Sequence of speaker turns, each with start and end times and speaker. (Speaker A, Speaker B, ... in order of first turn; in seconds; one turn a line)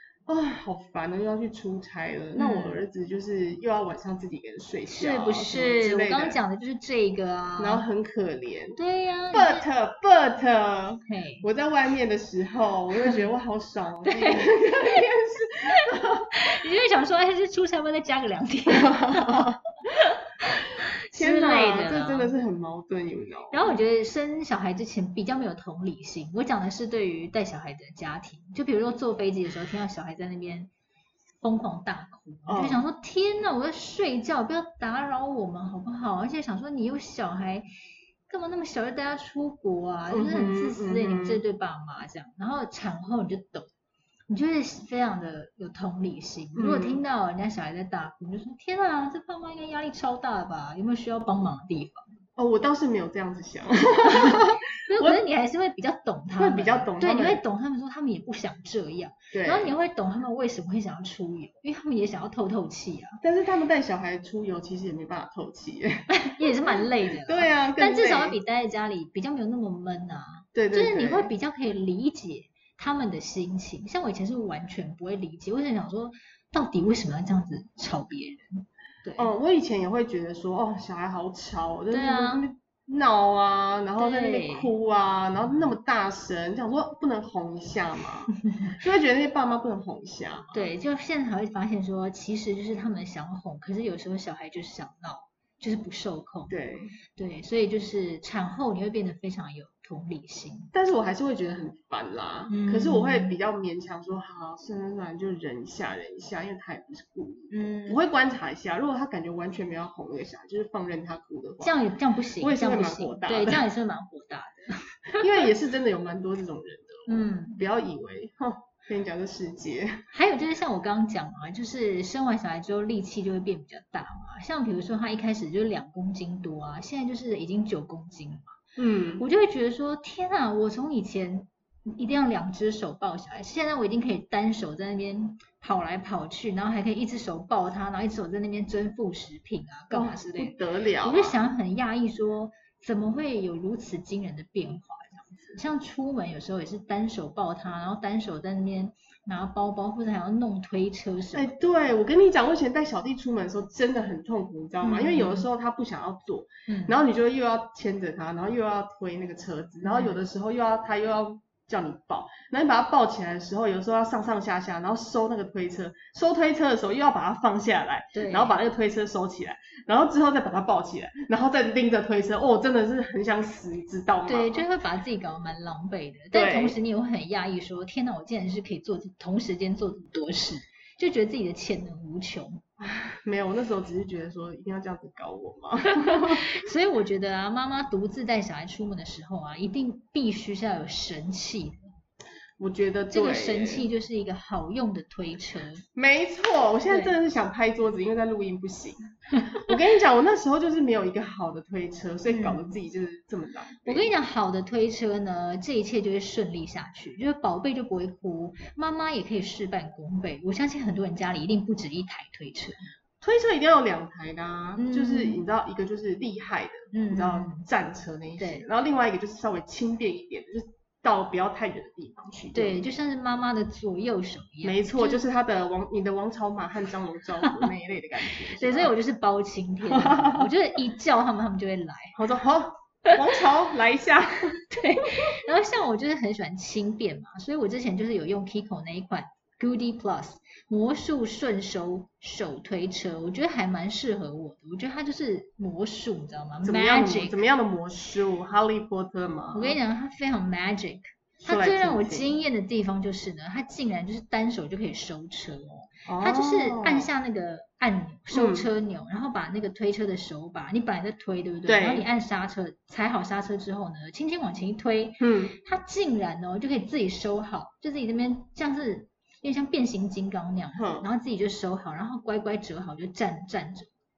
Speaker A: 0.3-6.4
Speaker B: 2.4-2.8
Speaker B: 4.9-7.8
Speaker A: 7.6-8.8
Speaker B: 8.8-9.7
Speaker A: 9.3-16.3
Speaker B: 11.1-11.5
Speaker B: 14.1-14.8
Speaker B: 15.7-22.3
Speaker A: 18.7-19.6
Speaker A: 21.1-23.7
Speaker B: 23.5-30.7
Speaker B: 31.4-37.7
Speaker A: 32.5-32.8
Speaker B: 38.3-43.7
Speaker A: 40.1-41.4
Speaker B: 44.3-52.1
Speaker A: 46.6-47.0
Speaker A: 52.4-55.2
Speaker B: 54.1-63.2
Speaker A: 56.4-57.4
Speaker A: 59.3-59.7
Speaker A: 63.2-68.4
Speaker B: 66.1-79.3
Speaker A: 70.5-71.3
Speaker A: 79.2-90.7
Speaker B: 81.9-82.5
Speaker B: 84.0-84.7
Speaker B: 85.5-85.7
Speaker B: 90.5-96.5
Speaker A: 96.5-96.9
Speaker B: 97.2-100.7
Speaker A: 100.7-111.8
Speaker B: 102.5-103.4
Speaker B: 107.5-108.0
Speaker B: 111.6-115.4
Speaker A: 112.4-113.6
Speaker A: 115.2-120.0
Speaker B: 117.1-117.6
Speaker B: 120.1-128.6
Speaker A: 128.8-129.2
Speaker B: 129.2-151.5
Speaker A: 139.9-141.4
Speaker A: 151.3-174.7
Speaker B: 154.8-155.5
Speaker B: 156.7-157.0
Speaker B: 159.8-160.2
Speaker B: 168.2-168.6
Speaker B: 174.3-182.6
Speaker A: 176.3-176.8
Speaker A: 182.8-186.5
Speaker B: 186.0-191.9
Speaker A: 192.6-193.9
Speaker B: 193.1-195.8
Speaker A: 195.9-204.1
Speaker B: 196.9-197.1
Speaker B: 199.4-199.7
Speaker B: 202.3-202.7
Speaker B: 203.8-212.9
Speaker A: 213.2-222.8
Speaker B: 214.8-215.4
Speaker B: 216.9-217.7
Speaker B: 218.4-218.7
Speaker B: 222.5-225.2
Speaker A: 224.6-228.9
Speaker B: 228.5-232.2
Speaker A: 229.9-230.5
Speaker A: 232.2-234.6
Speaker B: 234.7-247.4
Speaker A: 246.6-249.8
Speaker B: 249.5-273.9
Speaker A: 251.4-252.3
Speaker A: 256.1-257.1
Speaker A: 258.3-258.7
Speaker A: 261.7-262.1
Speaker A: 265.2-265.6
Speaker A: 270.8-271.1